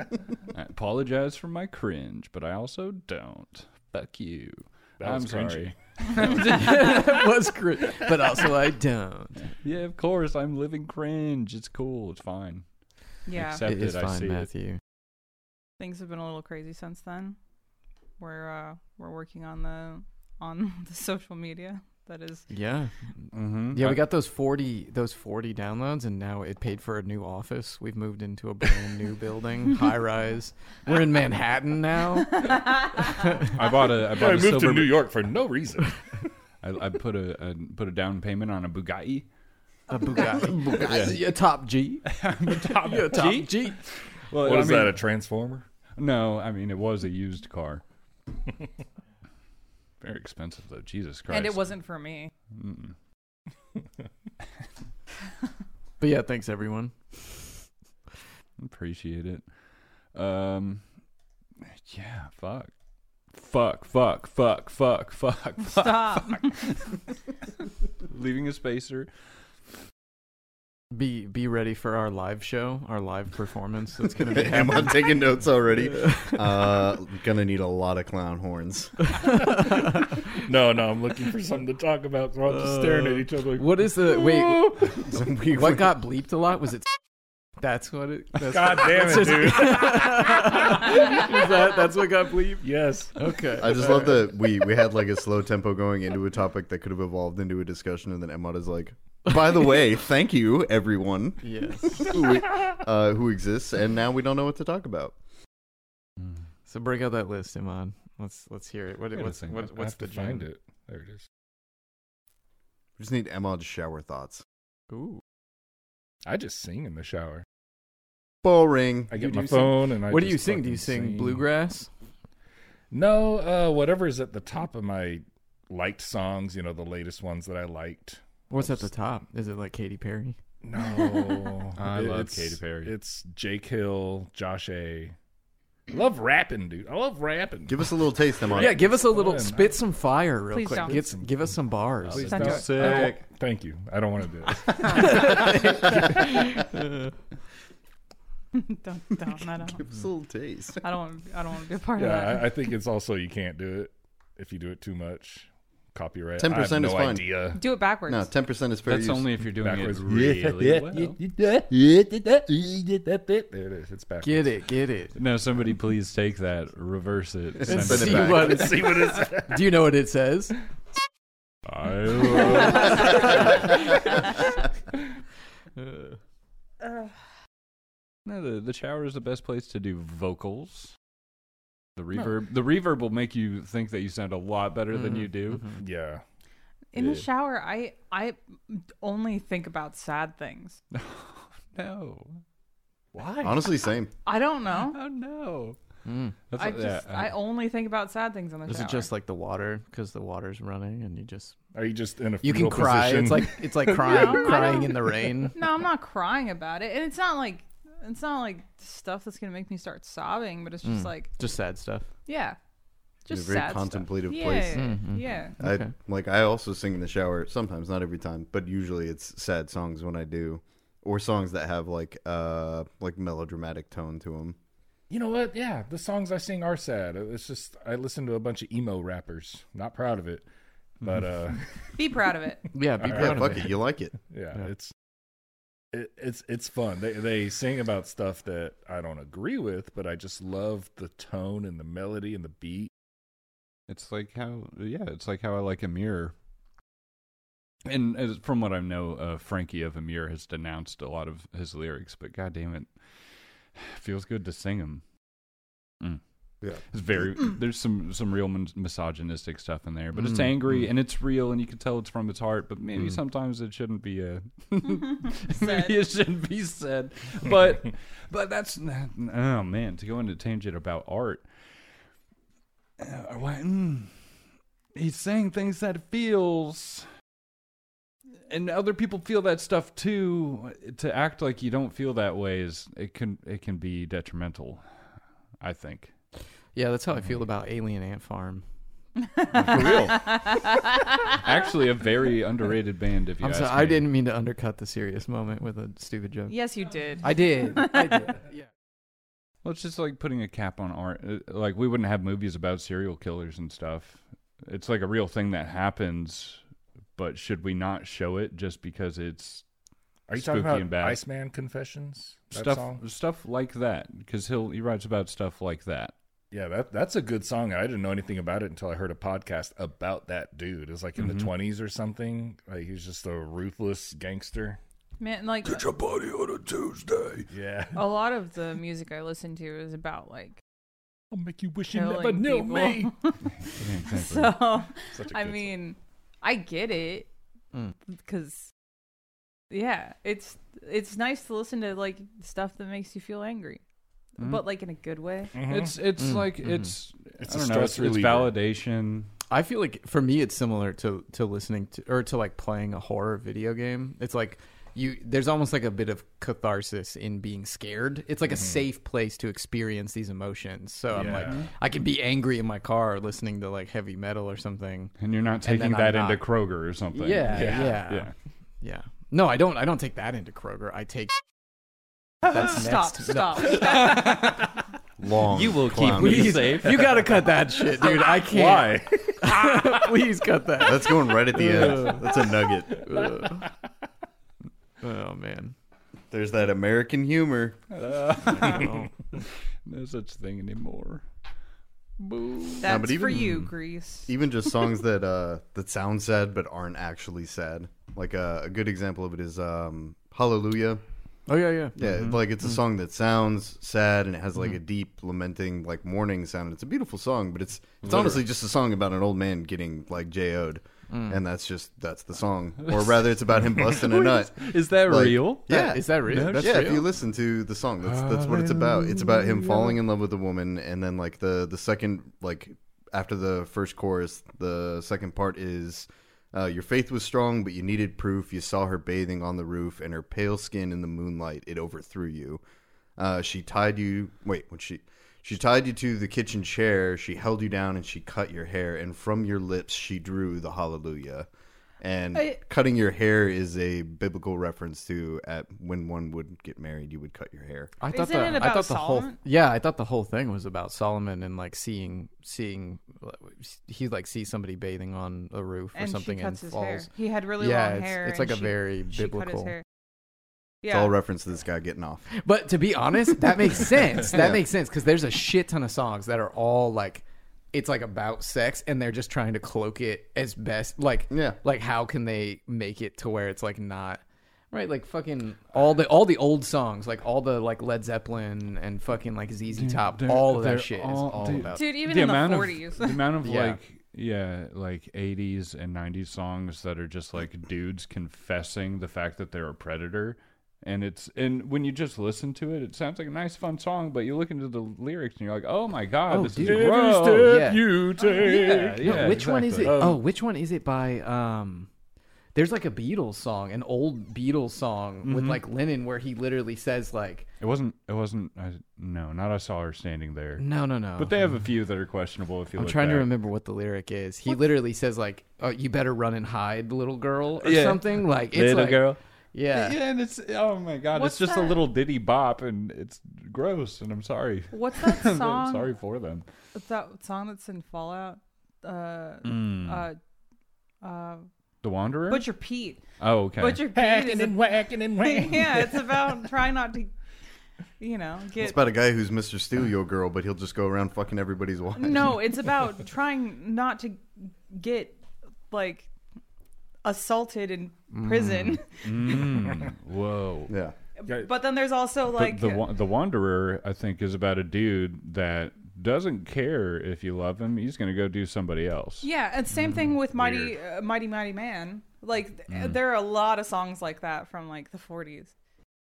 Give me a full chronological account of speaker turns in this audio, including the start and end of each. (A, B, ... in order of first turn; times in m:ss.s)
0:00.5-0:07.2 A
0:05.0-0:05.7 B
0:06.2-0:09.4 C
0:09.6-0:12.6 A
0:13.3-0:13.6 D
0:13.3-0:14.5 A
0:13.6-0:14.8 C
0:15.8-0:17.4 D
0:18.2-0:22.5 D
0:22.5-0:33.5 C
0:23.3-0:24.1 A
0:32.3-0:33.1 D
0:33.4-0:35.0 A
0:33.6-0:36.2 B
0:36.6-0:39.3 A
0:39.9-0:43.8 C
0:40.1-0:40.4 D
0:40.8-0:41.1 B
0:42.1-0:45.0 A
0:44.3-0:45.7 B
0:46.0-0:47.8 A
0:50.0-0:51.8 A
0:51.3-0:52.3 D
0:52.5-0:52.9 A
0:56.0-0:57.6 C
0:58.6-0:59.5 A
1:00.1-1:00.8 A
1:01.6-1:02.7 A
1:03.3-1:07.0 A
1:05.6-1:06.5 D
1:08.0-1:09.1 A
1:10.9-1:16.8 C
1:14.3-1:19.1 E
1:19.1-1:20.1 C
1:19.4-1:24.8 B
1:22.5-1:26.9 C
1:25.1-1:25.8 E
1:27.6-1:34.2 C
1:28.4-1:31.6 B
1:32.6-1:33.2 B
1:33.6-1:45.2 E
1:41.4-1:42.2 C
1:46.6-1:50.4 C
1:49.1-1:49.7 A
1:49.7-1:51.3 B
1:53.0-1:54.4 E
1:54.9-1:55.2 C
1:56.2-1:57.4 B
1:58.4-1:59.1 E
1:59.1-2:01.4 B
1:59.2-2:01.9 C
2:02.9-2:08.8 B
2:08.5-2:10.4 C
2:10.6-2:15.2 B
2:11.8-2:12.9 A
2:15.9-2:17.8 B
2:17.7-2:18.8 E
2:18.4-2:19.8 B
2:18.5-2:23.1 C
2:20.5-2:20.9 D
2:20.9-2:21.3 B
2:22.0-2:23.1 A
2:22.1-2:26.6 B
2:22.3-2:23.2 D
2:24.8-2:27.1 C
2:28.5-2:29.8 D
2:29.7-2:30.8 E
2:30.8-2:32.6 D
2:31.9-2:37.6 B
2:36.4-2:37.2 E
2:37.5-2:38.3 D
2:38.1-2:39.3 E
2:38.8-2:41.2 A
2:39.6-2:44.5 B
2:44.2-2:45.1 C
2:45.2-2:48.5 A
2:47.7-2:48.6 E
2:47.7-2:50.6 C
2:48.2-2:49.7 B
2:51.7-2:54.2 B
2:52.1-2:53.2 A
2:55.8-2:56.1 C
2:56.8-2:57.1 D
2:58.2-3:00.9 A
3:02.0-3:05.7 A
3:05.7-3:06.2 B
3:06.9-3:10.8 D
3:07.0-3:07.3 A
3:10.9-3:12.4 A
3:13.1-3:13.7 A
3:13.4-3:14.1 E
3:14.2-3:15.0 D
3:14.7-3:15.8 A
3:16.0-3:16.3 C
3:16.5-3:17.4 A
3:16.6-3:19.1 D
3:18.7-3:21.6 C
3:21.7-3:24.4 B
3:22.4-3:25.6 C
3:23.9-3:24.9 D
3:25.5-3:31.3 D
3:30.8-3:32.1 C
3:32.2-3:32.6 D
3:33.2-3:35.5 D
3:33.3-3:34.9 E
3:34.7-3:35.9 C
3:35.6-3:44.6 E
3:45.1-3:50.5 B
3:51.0-3:51.9 B
3:51.9-3:52.7 D
3:52.7-3:53.7 C
3:53.0-3:53.5 B
3:53.0-3:54.1 E
3:54.2-3:54.9 B
3:55.9-4:02.9 B
4:03.9-4:06.3 A
4:07.8-4:13.0 A
4:13.7-4:15.0 A
4:16.0-4:31.5 A
4:24.9-4:26.0 D
4:33.0-4:34.3 A
4:34.9-4:37.1 A
4:38.4-4:44.8 A
4:45.6-4:46.1 A
4:46.7-4:48.6 C
4:49.3-4:51.3 D
4:49.5-4:50.4 A
4:49.6-4:50.0 C
4:51.3-4:54.1 A
4:53.4-4:56.6 C
4:56.5-4:58.3 D
4:57.2-4:58.6 C
4:59.6-5:06.6 A
5:07.2-5:09.6 A
5:10.3-5:13.0 B
5:10.3-5:11.2 A
5:12.5-5:16.1 A
5:16.5-5:24.8 B
5:21.2-5:21.5 A
5:25.2-5:25.9 D
5:25.6-5:28.1 B
5:27.9-5:30.6 D
5:31.3-5:33.2 B
5:31.9-5:37.3 D
5:33.7-5:34.6 A
5:35.1-5:35.7 B
5:38.1-5:38.7 D
5:39.7-5:43.8 D
5:44.4-5:45.6 D
5:45.5-5:46.0 B
5:45.6-5:49.3 A
5:46.2-5:46.9 C
5:47.4-5:48.5 B
5:49.5-6:06.4 C
6:01.1-6:01.7 B
6:01.2-6:01.7 A
6:05.2-6:08.3 A
6:07.1-6:08.3 C
6:07.5-6:08.0 B
6:08.8-6:11.3 C
6:12.4-6:13.8 C
6:12.5-6:14.4 D
6:13.8-6:14.7 A
6:15.2-6:16.6 E
6:15.4-6:17.2 A
6:16.1-6:22.3 C
6:18.0-6:20.2 B
6:20.8-6:23.0 E
6:23.0-6:23.7 C
6:23.2-6:23.5 B
6:25.0-6:25.7 C
6:26.3-6:27.8 E
6:27.9-6:29.0 A
6:28.4-6:29.1 C
6:29.8-6:31.2 A
6:32.3-6:32.8 C
6:32.8-6:34.3 D
6:32.8-6:33.7 E
6:34.3-6:41.0 E
6:41.5-6:42.0 C
6:42.0-7:12.6 E
6:42.0-6:42.3 A
6:51.1-6:51.4 C
6:52.8-6:53.1 A
6:53.8-6:57.0 A
6:55.7-6:57.0 C
6:58.0-6:59.9 A
7:13.2-7:21.5 E
7:22.0-7:27.9 E
7:22.3-7:22.6 D
7:28.0-7:39.8 C
7:28.1-7:29.4 D
7:35.9-7:39.8 D
7:40.8-7:41.1 D
7:40.9-7:42.2 E
7:42.3-8:01.8 C
7:44.2-7:44.6 E
7:51.3-7:51.6 E
7:59.8-8:17.7 A
8:01.7-8:03.3 D
8:03.4-8:03.8 C
8:16.3-8:21.9 C
8:16.6-8:20.2 B
8:18.4-8:20.0 A
8:22.5-8:27.5 C
8:25.2-8:25.6 A
8:27.6-8:30.6 A
8:30.6-8:31.3 C
8:31.2-8:33.3 A
8:32.8-8:40.0 C
8:37.6-8:39.2 A
8:39.7-8:46.5 A
8:41.1-8:41.8 D
8:44.7-8:45.9 D
8:46.7-8:50.2 D
8:49.4-8:50.1 A
8:51.0-8:51.5 D
8:51.8-8:52.5 A
8:52.3-8:53.0 D
8:53.2-8:53.8 A
8:53.6-8:57.1 D
8:53.9-8:56.3 B
8:58.0-8:58.8 D
8:58.6-9:02.4 E
9:02.0-9:06.1 D
9:07.0-9:09.5 D
9:08.1-9:08.8 C
9:09.0-9:10.7 A
9:10.7-9:10.9 E
9:11.2-9:12.8 D
9:12.3-9:19.3 A
9:19.2-9:25.5 D
9:22.7-9:23.0 A